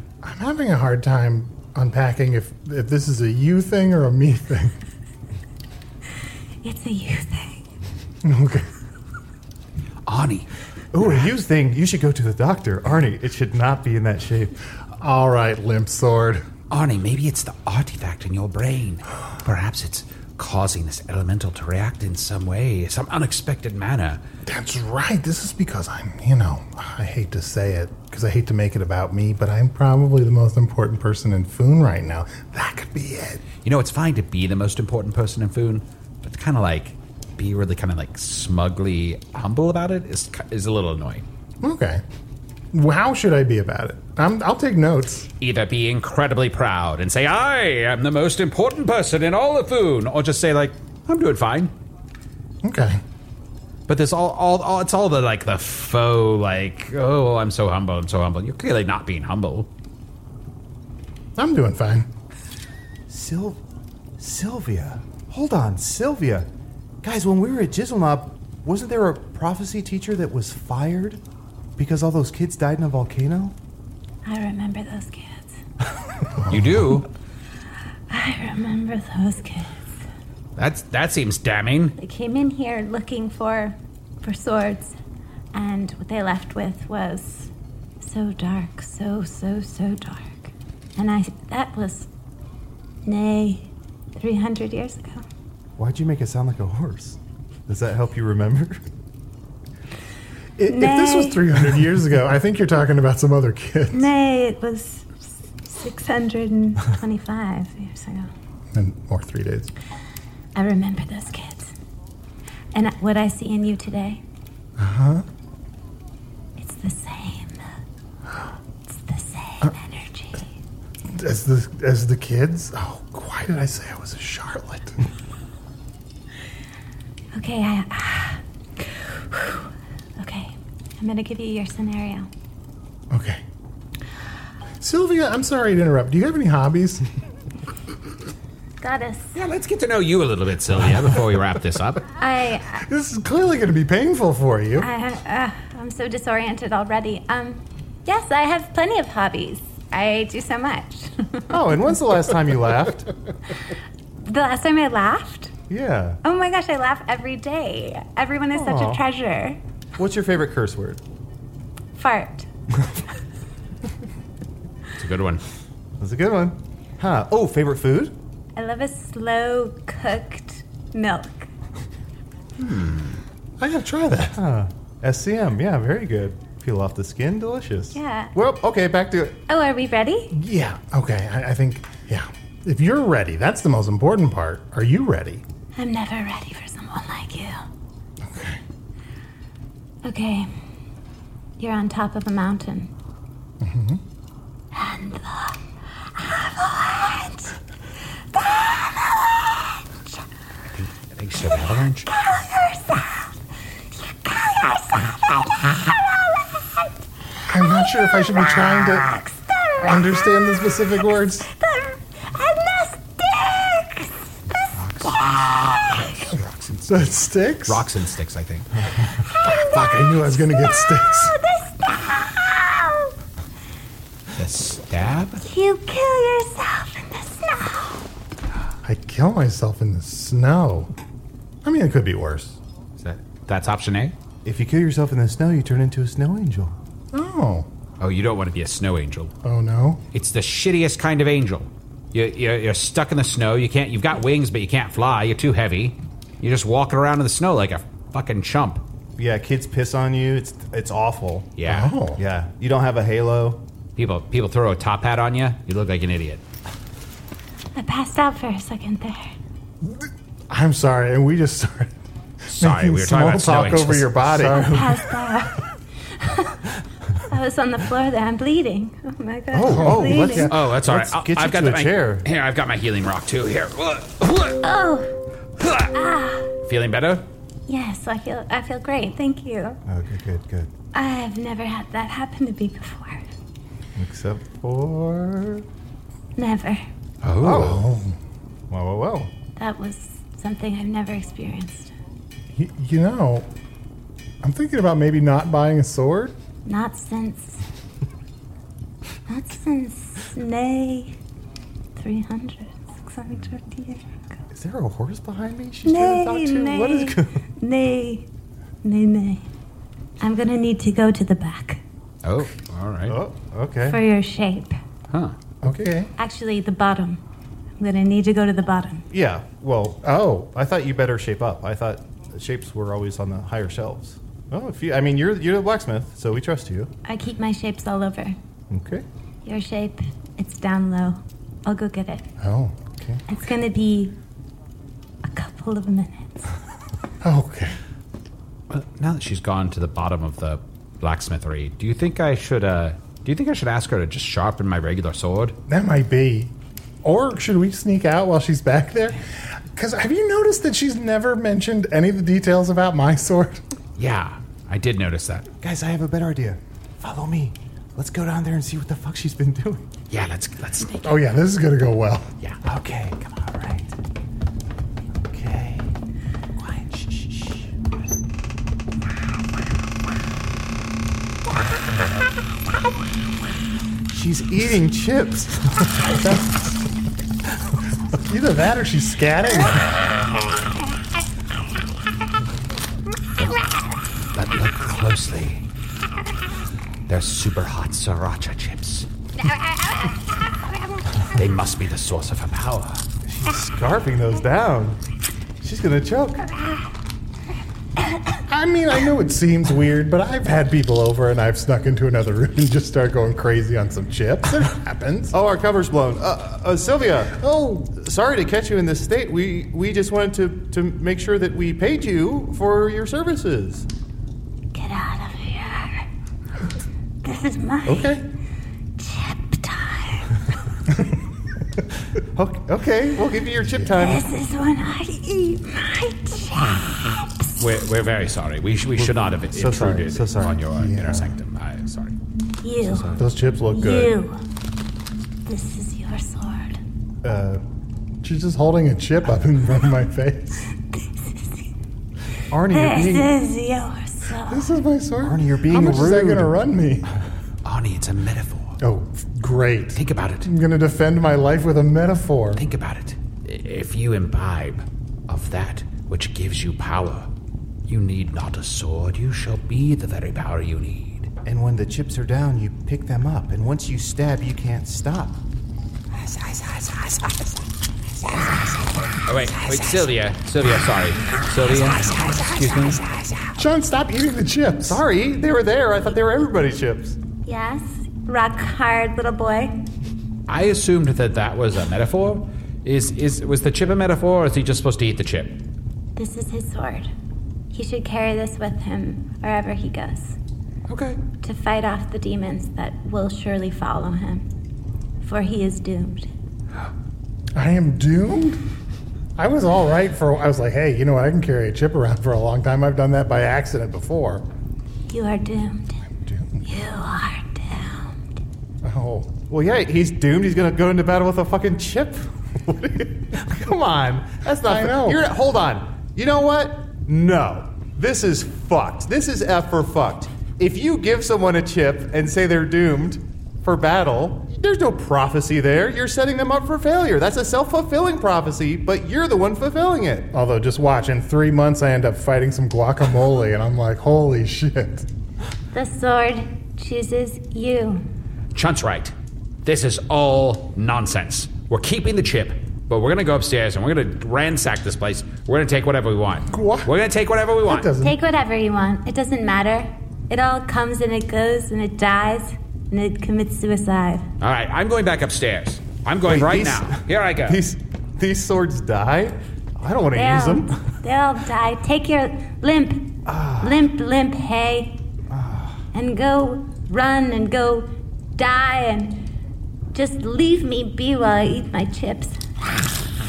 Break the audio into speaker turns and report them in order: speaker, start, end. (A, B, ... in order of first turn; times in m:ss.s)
0:00.2-0:04.7 A
0:06.6-0:07.7 B
0:08.2-0:08.7 A
0:10.0-0:10.5 C
0:10.9-0:14.6 D
0:15.0-0:16.5 A
0:16.7-0:24.2 C
0:24.4-0:33.4 A
0:33.6-0:41.2 C
0:41.6-0:42.0 A
0:42.7-0:45.3 A
0:45.4-0:51.7 C
0:52.6-0:53.0 A
0:53.9-0:59.7 C
1:01.4-1:02.1 A
1:03.1-1:03.6 D
1:04.2-1:06.5 D
1:07.0-1:11.2 D
1:11.8-1:13.6 D
1:14.2-1:15.5 B
1:16.4-1:16.8 A
1:16.5-1:17.1 C
1:18.1-1:20.0 B
1:20.6-1:22.0 C
1:22.0-1:25.0 B
1:25.5-1:27.5 B
1:28.0-1:32.1 B
1:33.0-1:35.2 B
1:35.8-1:38.8 D
1:40.6-1:44.1 A
1:40.7-1:41.4 B
1:43.9-1:48.3 B
1:48.7-1:49.7 A
1:50.5-1:51.7 B
1:52.7-1:54.2 B
1:54.8-1:55.2 A
1:56.6-1:57.7 B
1:58.9-2:00.5 B
2:01.1-2:05.0 A
2:07.3-2:12.3 B
2:13.1-2:13.4 A
2:14.8-2:17.0 A
2:18.8-2:19.4 B
2:19.4-2:22.0 C
2:22.2-2:22.8 B
2:22.8-2:24.9 A
2:24.8-2:31.5 B
2:31.5-2:33.1 D
2:34.2-2:35.5 B
2:35.7-2:36.2 D
2:36.2-2:39.6 B
2:38.5-2:39.0 D
2:40.0-2:41.0 D
2:42.0-2:42.5 B
2:45.0-2:45.4 C
2:46.0-2:48.1 D
2:48.6-2:51.5 B
2:52.6-2:53.2 C
2:53.6-2:54.4 A
2:54.3-2:59.4 D
2:57.9-2:58.3 B
2:59.5-3:00.3 B
3:00.3-3:05.4 A
3:05.7-3:07.6 B
3:08.2-3:08.6 A
3:10.0-3:10.5 B
3:11.6-3:12.9 B
3:13.6-3:14.0 A
3:14.7-3:17.6 B
3:18.3-3:19.8 B
3:20.7-3:22.1 C
3:22.1-3:23.3 B
3:24.0-3:26.4 B
3:27.5-3:29.1 A
3:29.0-3:29.9 B
3:29.8-3:31.5 A
3:31.5-3:34.7 B
3:34.7-3:38.7 C
3:36.9-3:37.8 A
3:39.4-3:41.3 A
3:39.4-3:43.1 B
3:44.3-3:45.4 C
3:45.4-3:48.0 B
3:48.8-3:50.9 A
3:51.6-3:52.6 A
3:53.0-3:54.1 C
3:54.4-3:56.8 D
3:57.1-3:57.7 A
3:58.0-3:59.3 C
3:59.4-4:00.0 A
4:00.1-4:08.8 C
4:09.2-4:11.5 D
4:11.6-4:11.9 C
4:11.6-4:12.2 A
4:12.1-4:13.6 D
4:14.0-4:16.4 C
4:17.7-4:19.3 B
4:19.8-4:21.9 A
4:22.5-4:24.6 C
4:22.6-4:25.1 A
4:24.6-4:26.6 B
4:27.3-4:30.5 B
4:29.5-4:32.2 D
4:29.6-4:30.5 A
4:30.5-4:34.6 C
4:34.6-4:35.1 B
4:35.6-4:35.9 C
4:35.9-4:36.5 B
4:36.6-4:37.2 C
4:37.7-4:39.8 B
4:39.8-4:40.7 D
4:40.9-4:43.3 B
4:43.9-4:45.6 D
4:46.4-4:46.8 B
4:47.2-4:47.8 C
4:47.4-4:47.8 D
4:47.4-4:48.2 A
4:48.7-4:49.3 D
4:49.6-4:51.9 B
4:52.5-4:53.5 A
4:54.4-4:56.3 A
4:56.6-4:57.6 B
4:59.3-5:01.2 B
5:02.0-5:04.1 B
5:04.5-5:07.4 D
5:05.8-5:08.3 B
5:08.8-5:09.5 B
5:10.2-5:11.8 B
5:12.2-5:13.2 C
5:13.1-5:14.0 D
5:13.8-5:14.8 B
5:15.6-5:16.1 A
5:16.2-5:17.2 B
5:17.8-5:19.0 B
5:19.1-5:26.9 D
5:20.0-5:20.5 A
5:27.0-5:28.4 B
5:28.7-5:29.0 D
5:29.4-5:32.2 B
5:32.4-5:32.7 A
5:32.9-5:33.2 D
5:33.3-5:34.2 B
5:35.2-5:36.4 B
5:37.2-5:37.8 A
5:38.7-5:45.6 C
5:45.7-5:53.6 A
5:54.0-5:55.5 C
5:55.6-5:59.8 D
6:00.1-6:01.2 C
6:01.0-6:02.3 A
6:02.6-6:03.9 D
6:05.3-6:05.9 D
6:06.6-6:07.7 D
6:14.1-6:16.2 D
6:16.0-6:16.7 A
6:18.2-6:19.9 A
6:24.3-6:25.6 C
6:27.1-6:29.1 C
6:31.3-6:33.0 C
6:33.2-6:35.0 D
6:35.6-6:36.5 D
6:38.5-6:45.3 A
6:45.3-6:53.9 D
6:54.7-6:56.0 B
6:57.2-6:58.1 B
6:57.9-6:58.2 D
6:59.0-7:00.3 B
7:02.2-7:04.2 D
7:03.9-7:07.5 B
7:07.6-7:12.1 C
7:09.0-7:10.6 D
7:10.8-7:11.3 A
7:12.6-7:13.2 B
7:12.9-7:13.1 C
7:13.0-7:14.1 D
7:13.2-7:14.1 A
7:13.7-7:14.4 B
7:15.4-7:16.8 B
7:17.2-7:17.6 D
7:18.2-7:20.6 A
7:20.9-7:21.7 B
7:22.5-7:23.3 D
7:22.7-7:24.7 B
7:24.5-7:27.1 A
7:25.2-7:26.6 D
7:27.6-7:28.8 C
7:28.8-7:32.6 A
7:29.9-7:30.5 C
7:32.6-7:37.3 C
7:37.9-7:41.3 C
7:41.4-7:45.4 D
7:46.3-7:47.4 C
7:49.2-7:53.5 C
7:53.6-7:55.0 A
7:54.8-7:57.2 D
7:57.4-7:59.7 B
8:00.5-8:05.6 C
8:06.2-8:07.1 B
8:07.7-8:10.4 B
8:10.9-8:11.2 C
8:11.4-8:14.4 B
8:15.2-8:16.3 B
8:17.5-8:18.6 A
8:19.4-8:24.4 A
8:25.1-8:26.0 B
8:26.2-8:26.6 A
8:26.6-8:28.2 B
8:28.8-8:29.3 A
8:29.5-8:50.3 D
8:34.6-8:35.2 A
8:50.3-8:55.1 A
8:55.7-8:58.0 B
8:58.5-8:59.1 C
8:59.6-9:07.9 C
9:06.5-9:06.9 A
9:07.7-9:08.2 A
9:08.0-9:14.3 B
9:14.4-9:17.6 C
9:16.2-9:20.8 D
9:20.1-9:25.0 B
9:23.2-9:23.8 D
9:25.3-9:25.8 D
9:25.9-9:29.2 B
9:29.9-9:32.4 B